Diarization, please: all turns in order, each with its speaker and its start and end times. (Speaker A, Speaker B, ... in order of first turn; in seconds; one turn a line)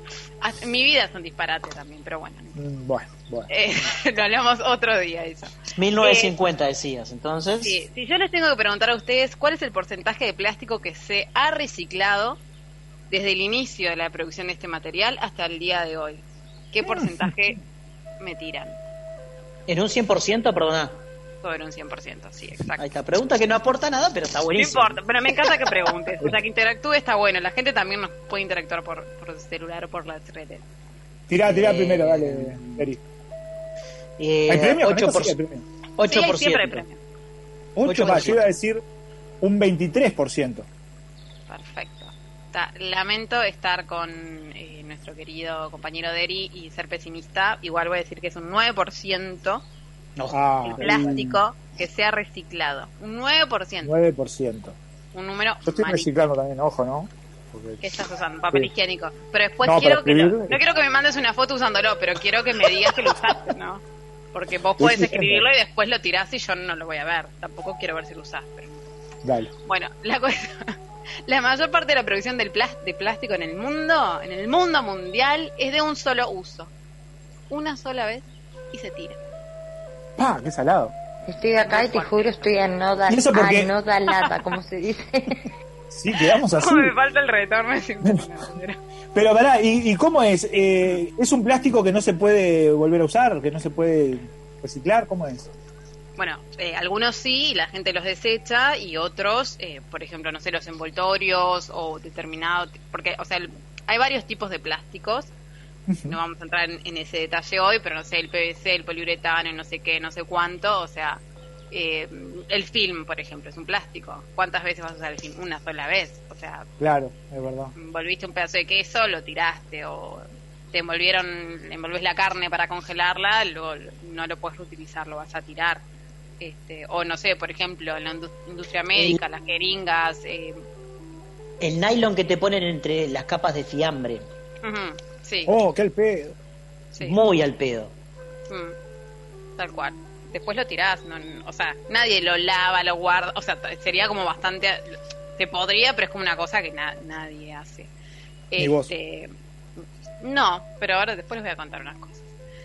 Speaker A: 0.4-2.5
Speaker B: 2.5-3.5
Speaker A: 3.5-6.3
Speaker C: 5.8-7.8
Speaker A: 7.6-12.4
Speaker A: 13.1-17.6
Speaker B: 16.8-17.5
Speaker A: 18.2-18.8
Speaker C: 19.7-21.0
Speaker A: 21.4-22.8
Speaker C: 22.8-25.3
Speaker A: 24.5-30.6
Speaker B: 31.3-33.0
Speaker C: 31.4-32.9
Speaker C: 34.2-35.3
Speaker B: 34.5-35.6
Speaker C: 36.0-36.8
Speaker A: 36.0-37.0
Speaker B: 37.8-38.8
Speaker C: 37.8-38.4
Speaker B: 39.4-40.7
Speaker A: 41.5-49.6
Speaker C: 50.2-51.2
Speaker B: 50.3-51.4
Speaker A: 50.8-53.9
Speaker B: 53.8-54.8
Speaker A: 55.1-56.1
Speaker B: 55.6-57.8
Speaker A: 57.8-63.8
Speaker B: 59.6-60.6
Speaker A: 64.3-68.8
Speaker B: 64.8-65.5
Speaker B: 69.2-69.5
Speaker A: 69.7-70.7
Speaker A: 71.3-76.7
Speaker A: 77.5-79.2
Speaker B: 80.2-80.9
Speaker D: 81.3-85.4
Speaker A: 81.6-82.5
Speaker B: 83.1-83.7
Speaker A: 84.1-84.6
Speaker B: 85.9-86.9
Speaker A: 86.5-88.8
Speaker B: 89.1-95.5
Speaker A: 90.5-91.0
Speaker A: 96.2-105.3
Speaker B: 105.9-106.2
Speaker A: 106.1-116.7
Speaker B: 116.8-117.7
Speaker A: 117.8-125.8
Speaker A: 126.4-130.6
Speaker C: 131.6-134.2
Speaker A: 134.6-135.6
Speaker B: 135.4-136.3
Speaker C: 137.0-137.9
Speaker A: 138.5-138.7
Speaker A: 139.6-147.9
Speaker A: 148.5-149.3
Speaker B: 148.6-148.9
Speaker A: 150.2-152.2